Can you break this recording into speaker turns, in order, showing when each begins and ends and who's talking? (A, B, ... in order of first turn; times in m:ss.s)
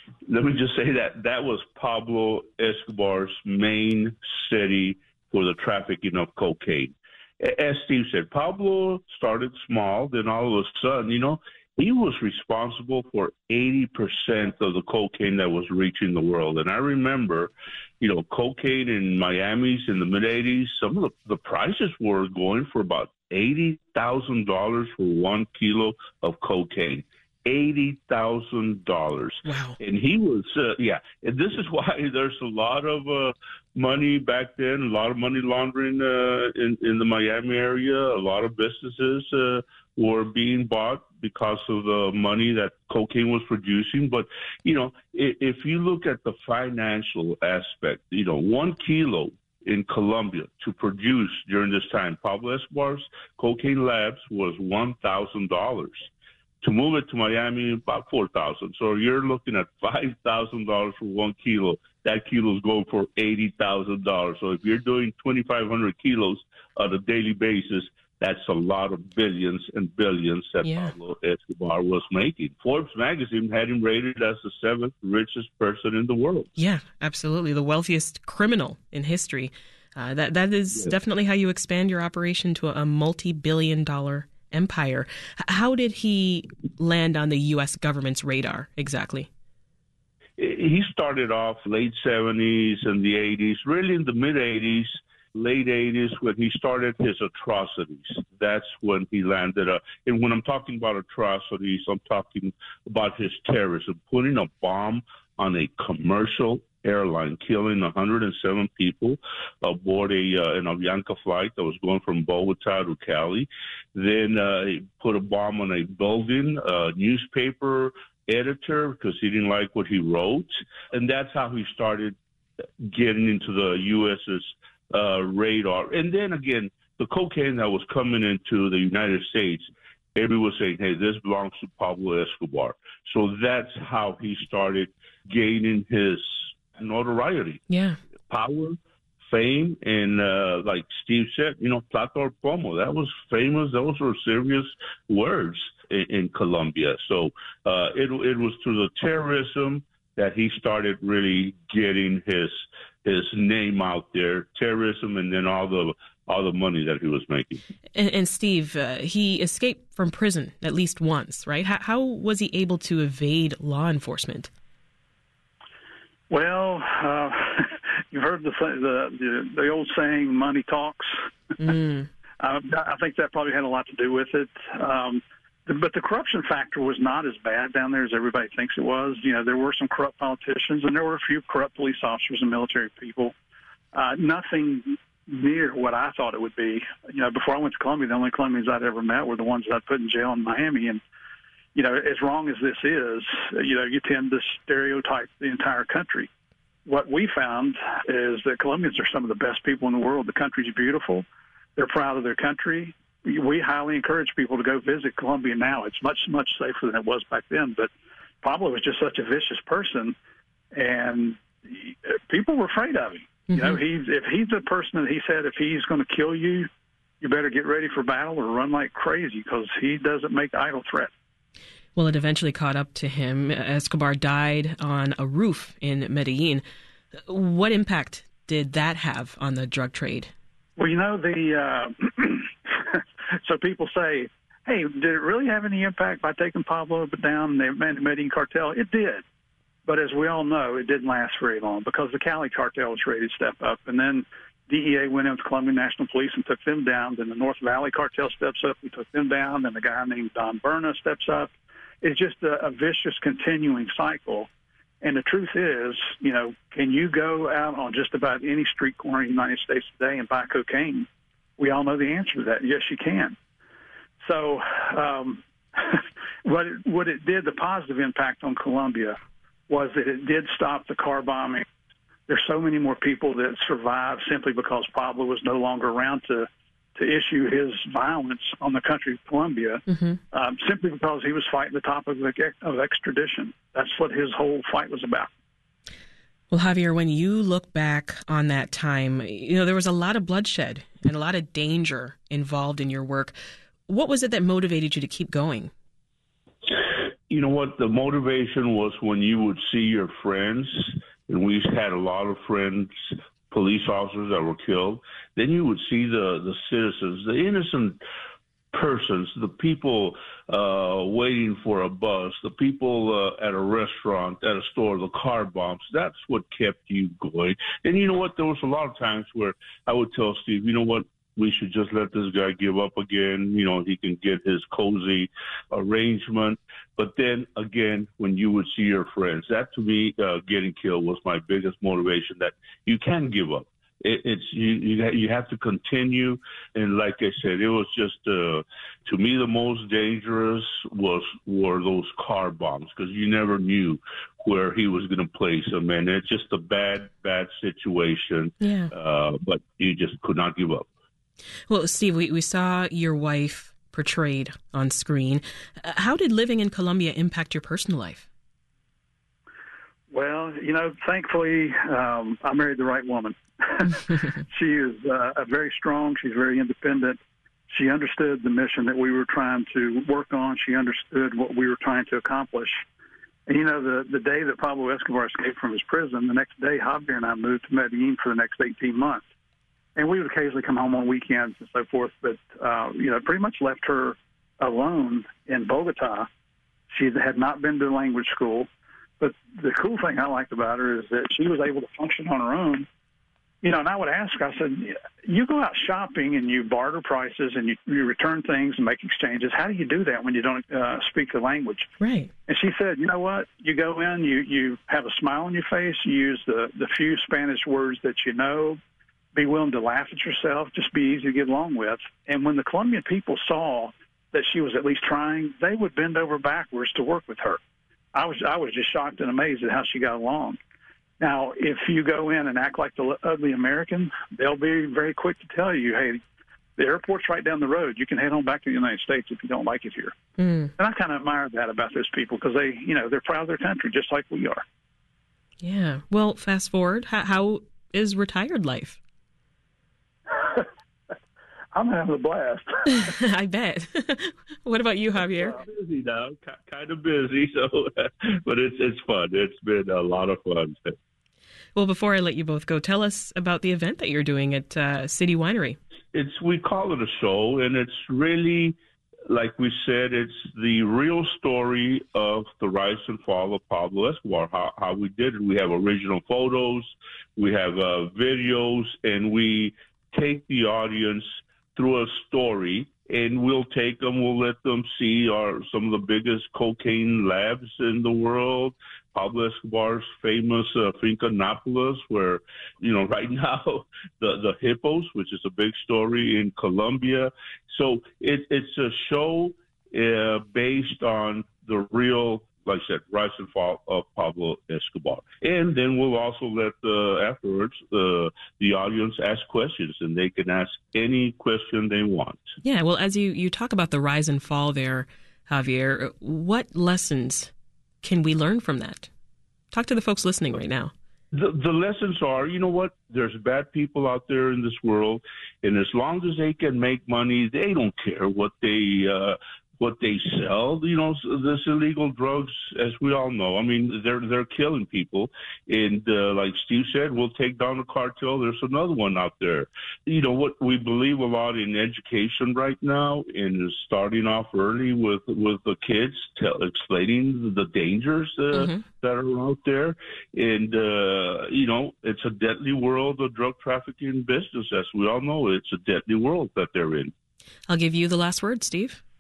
0:00.3-0:56.1 A
0:29.5-0:29.8 B
0:56.6-1:16.5 A
1:10.6-1:10.9 B
1:16.6-1:29.3 B
1:30.4-2:02.2 A
2:02.8-2:17.6 A
2:17.7-2:18.0 B
2:18.3-2:37.6 A
2:38.0-2:44.5 B
2:46.3-2:51.7 C
2:51.6-2:52.1 B
2:52.4-3:03.3 C
3:03.9-3:11.0 C
3:11.8-3:16.3 C
3:16.9-3:27.9 C
3:28.4-3:30.2 C
3:30.7-3:36.7 C
3:37.2-3:41.1 C
3:42.0-3:46.6 B
3:47.3-3:50.3 B
3:50.8-3:59.2 C
3:59.9-4:14.5 C
4:15.0-4:21.1 C
4:21.6-4:23.4 C
4:24.2-4:29.2 C
4:29.7-4:31.7 C
4:32.3-4:45.3 C
4:46.5-4:53.3 B
4:53.9-4:55.7 B
4:57.3-5:08.0 A
5:08.7-5:50.9 A
5:48.6-5:48.9 B
5:51.7-5:58.3 B
6:00.1-6:12.8 C
6:13.5-6:19.2 C
6:20.0-6:26.3 C
6:26.9-6:28.7 C
6:29.2-6:32.9 C
6:33.6-6:41.9 C
6:42.0-6:42.3 B
6:42.5-6:48.8 C
6:49.4-6:57.6 C
6:58.1-7:00.6 C
7:01.2-7:06.2 C
7:06.8-7:10.2 C
7:10.4-7:10.7 B
7:10.8-7:14.6 C
7:15.6-7:19.0 B
7:20.3-7:20.7 C
7:21.7-7:23.1 C
7:22.9-7:25.6 B
7:25.5-7:31.0 A
7:31.8-7:35.8 B
7:36.1-7:38.8 A
7:39.3-7:51.2 A
7:51.8-8:22.4 A
8:22.6-8:29.1 B
8:29.7-8:30.9 B
8:31.3-9:07.1 A
9:07.7-9:09.0 B